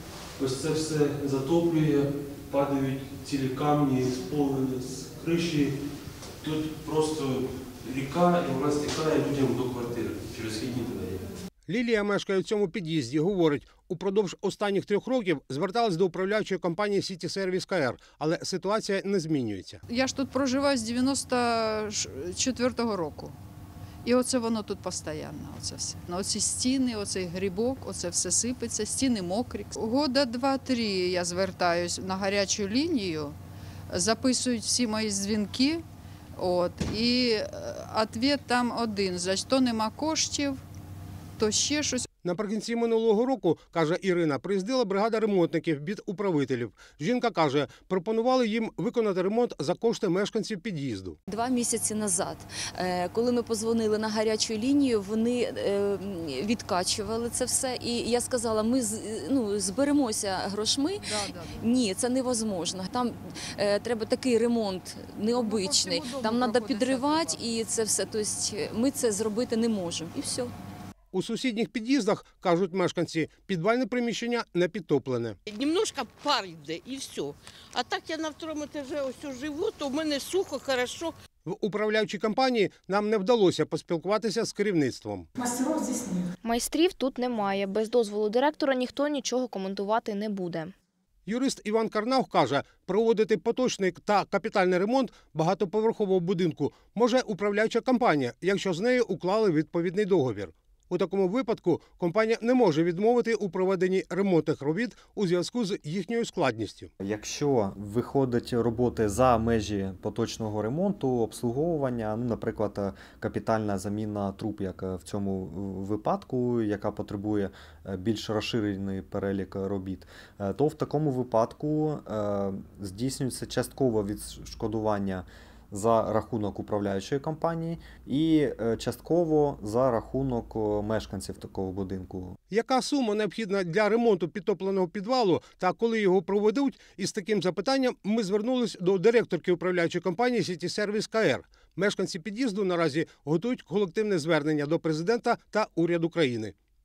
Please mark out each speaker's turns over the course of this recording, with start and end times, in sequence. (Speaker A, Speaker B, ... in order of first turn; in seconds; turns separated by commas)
Speaker A: 0.4-5.8, Speaker A: 6.4-11.3, Speaker B: 11.7-19.8, Speaker C: 19.9-23.4, Speaker C: 24.0-33.4, Speaker C: 33.9-35.8, Speaker C: 36.4-40.6, Speaker C: 41.4-42.1, Speaker B: 42.2-51.2, Speaker D: 51.3-70.5, Speaker C: 61.0-61.7, Speaker C: 65.4-67.4, Speaker B: 71.1-75.4, Speaker E: 75.5-81.1, Speaker B: 81.5-85.3, Speaker F: 86.4-90.7, Speaker B: 91.3-106.9, Speaker G: 107.0-132.4, Speaker B: 132.5-146.5